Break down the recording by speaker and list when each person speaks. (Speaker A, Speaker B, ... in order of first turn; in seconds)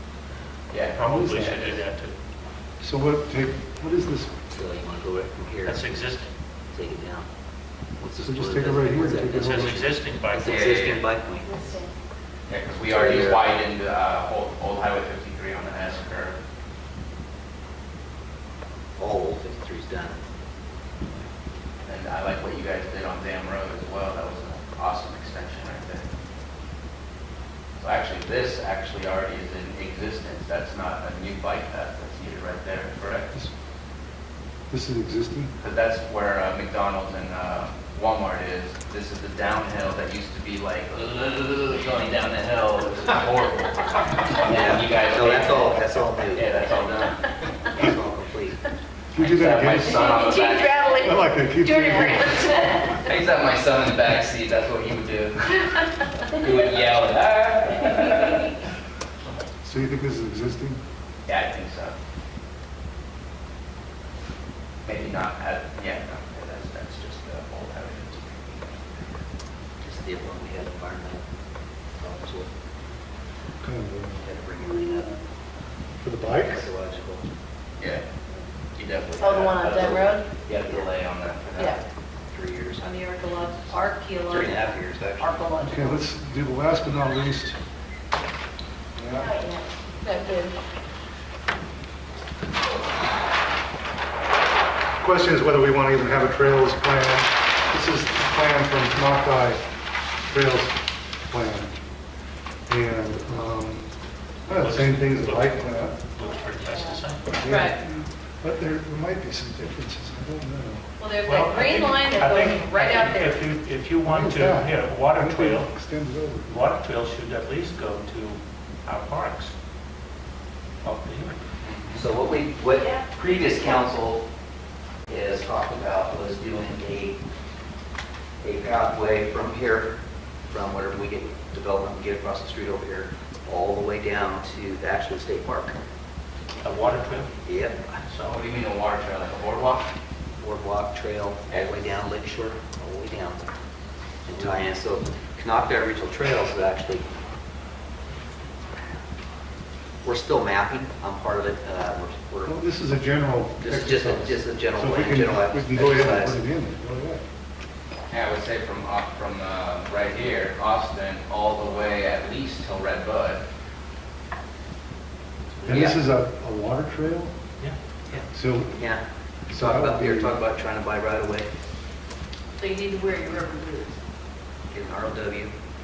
Speaker A: 0.7-1.6, 10.4-11.0, 12.5-16.4, 21.8-26.1, 27.8-33.3, 35.6-47.3, 49.1-51.0, 53.0-58.6, 61.3-61.9, 64.8-68.9, 77.8-78.0, 78.7-81.8, 121.6-122.0, 138.2-139.9, 158.1-163.4
Speaker B: 0.9-2.1, 5.6-6.3, 9.3-11.1, 104.5-107.4, 111.2-115.7, 116.5-119.5, 120.8-121.4, 136.6-137.3, 138.0-138.3
Speaker C: 1.0-1.8, 2.8-4.3, 8.2-10.0, 34.7-35.5, 49.1-50.1, 51.0-52.8, 59.6-60.8, 73.6-74.2, 76.0-76.7, 85.6-87.6, 89.0-89.3, 95.0-99.6, 100.3-101.8, 102.7-103.9, 104.5-106.0, 107.4-110.8, 114.0-116.6, 152.4-157.2, 165.6-167.3, 168.3-168.8, 169.5-170.4
Speaker D: 4.5-6.0, 6.7-7.2, 8.0-11.5, 12.9-13.4, 19.0-20.2, 44.4-46.5, 47.7-48.6, 69.8-71.2, 72.0-72.5, 74.2-75.1, 76.3-77.2, 82.3-83.4, 84.2-85.4, 121.9-124.2, 125.1-127.2, 128.4-130.0, 130.5-135.8, 137.4-138.0, 140.4-143.4, 144.2-147.1, 150.0-152.6, 153.6-156.4, 165.6-166.0, 168.8-171.5, 174.7-175.5
Speaker E: 11.4-11.9, 49.8-53.0, 74.6-75.1, 79.2-80.3, 81.5-81.8, 82.8-86.0, 89.2-90.5, 106.2-107.8, 111.0-113.5, 122.7-123.1, 172.6-173.9